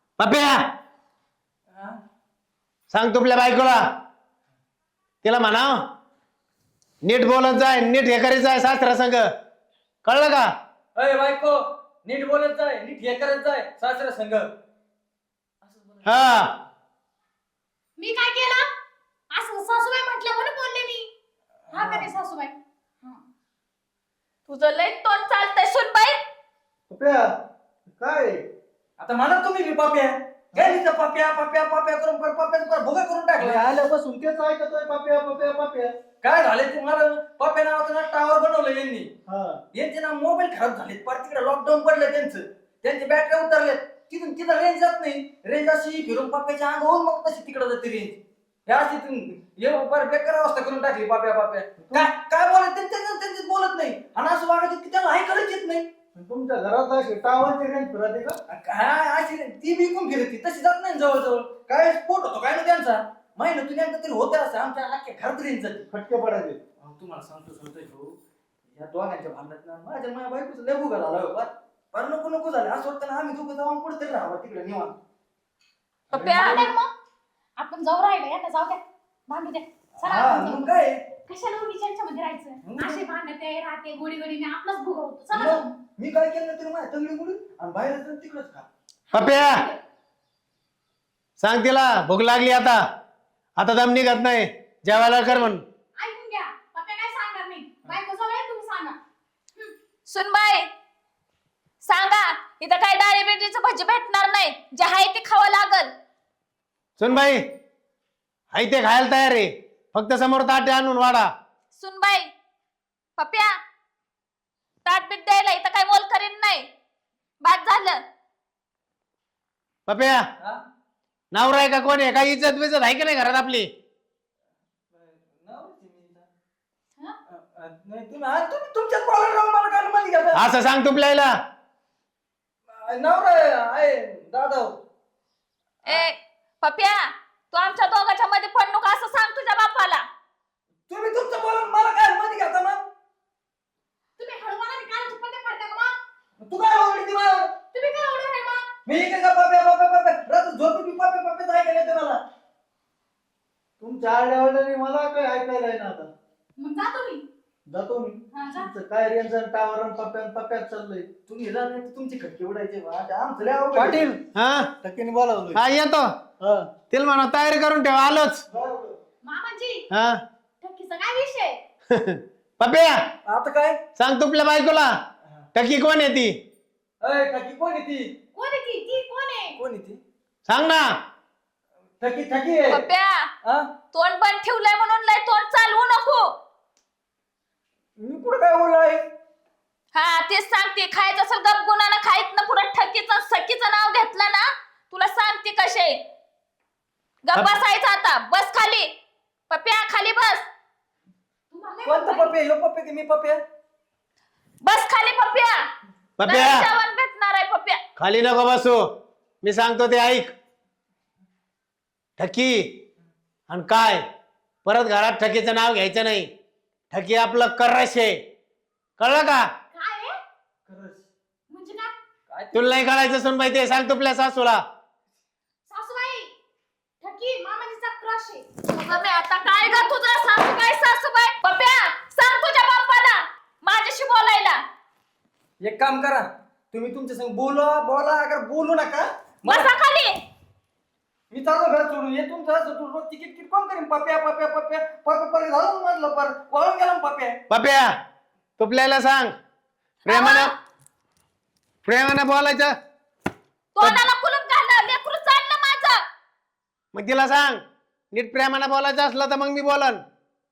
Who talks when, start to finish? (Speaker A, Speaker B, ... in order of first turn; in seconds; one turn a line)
Speaker A: 0.2-0.7
Speaker B: 1.7-2.0
Speaker A: 2.9-3.8
Speaker A: 5.2-5.8
Speaker A: 7.0-9.3
Speaker A: 10.0-10.5
Speaker B: 10.9-14.5
Speaker B: 15.7-16.0
Speaker A: 16.0-16.5
Speaker C: 18.0-18.6
Speaker C: 19.3-21.1
Speaker C: 21.7-23.2
Speaker D: 24.5-26.2
Speaker E: 26.9-27.3
Speaker E: 27.9-28.4
Speaker B: 29.0-33.7
Speaker E: 33.4-35.9
Speaker B: 36.2-39.1
Speaker E: 39.3-39.6
Speaker B: 39.7-55.9
Speaker E: 51.8-52.1
Speaker E: 56.1-58.4
Speaker B: 58.5-65.8
Speaker E: 65.9-66.6
Speaker B: 66.8-68.2
Speaker B: 68.7-74.9
Speaker D: 76.1-76.7
Speaker B: 76.1-76.7
Speaker C: 76.3-76.9
Speaker C: 77.6-85.7
Speaker B: 80.0-81.0
Speaker B: 82.6-83.0
Speaker B: 85.3-88.7
Speaker C: 89.1-89.8
Speaker A: 89.1-89.6
Speaker A: 91.4-92.8
Speaker A: 93.6-95.6
Speaker C: 94.9-99.0
Speaker D: 100.1-100.7
Speaker D: 101.8-105.9
Speaker A: 107.0-107.4
Speaker A: 108.5-111.3
Speaker D: 111.7-112.3
Speaker D: 113.2-113.5
Speaker D: 114.8-116.7
Speaker D: 117.4-118.0
Speaker A: 119.9-120.2
Speaker A: 121.3-123.7
Speaker B: 124.9-126.2
Speaker B: 127.3-130.4
Speaker A: 130.3-131.3
Speaker B: 132.7-134.8
Speaker D: 135.8-140.1
Speaker B: 140.9-142.8
Speaker C: 144.2-145.9
Speaker B: 146.4-147.5
Speaker C: 147.7-148.7
Speaker B: 148.8-152.2
Speaker E: 153.8-156.1
Speaker C: 156.6-157.2
Speaker E: 157.7-161.1
Speaker C: 158.3-158.7
Speaker B: 161.3-164.1
Speaker E: 163.7-164.2
Speaker A: 164.3-164.7
Speaker E: 164.8-165.6
Speaker A: 165.5-166.1
Speaker E: 166.4-166.7
Speaker A: 166.9-168.4
Speaker E: 168.5-169.0
Speaker C: 169.2-169.8
Speaker A: 169.9-170.2
Speaker C: 170.6-171.6
Speaker A: 171.9-173.0
Speaker B: 173.2-173.8
Speaker A: 173.9-174.9
Speaker A: 175.5-176.3
Speaker B: 177.0-178.1
Speaker C: 178.3-179.6
Speaker B: 179.6-180.0
Speaker A: 180.4-180.9
Speaker B: 182.0-182.8
Speaker D: 182.7-183.3
Speaker D: 183.9-186.3
Speaker B: 188.0-189.0
Speaker D: 189.9-196.0
Speaker D: 197.2-198.9
Speaker D: 199.5-200.4
Speaker C: 201.5-202.3
Speaker B: 201.8-203.4
Speaker D: 204.6-205.6
Speaker A: 206.2-206.7
Speaker D: 206.2-207.8
Speaker A: 207.9-208.8
Speaker A: 209.4-210.3
Speaker A: 212.2-212.7
Speaker A: 213.5-214.0
Speaker A: 214.6-216.3
Speaker A: 216.9-218.2
Speaker A: 219.0-219.4
Speaker C: 219.7-220.1
Speaker B: 220.7-221.0
Speaker C: 221.5-221.9
Speaker B: 222.3-222.7
Speaker A: 222.5-224.6
Speaker C: 225.7-226.3
Speaker C: 227.0-229.9
Speaker D: 228.7-234.6
Speaker B: 235.6-239.7
Speaker D: 239.4-240.2
Speaker B: 241.3-247.4
Speaker A: 247.5-247.9
Speaker A: 248.6-249.3
Speaker A: 250.0-250.5
Speaker D: 250.1-250.5
Speaker A: 251.8-252.7
Speaker D: 253.8-256.0
Speaker A: 256.9-260.0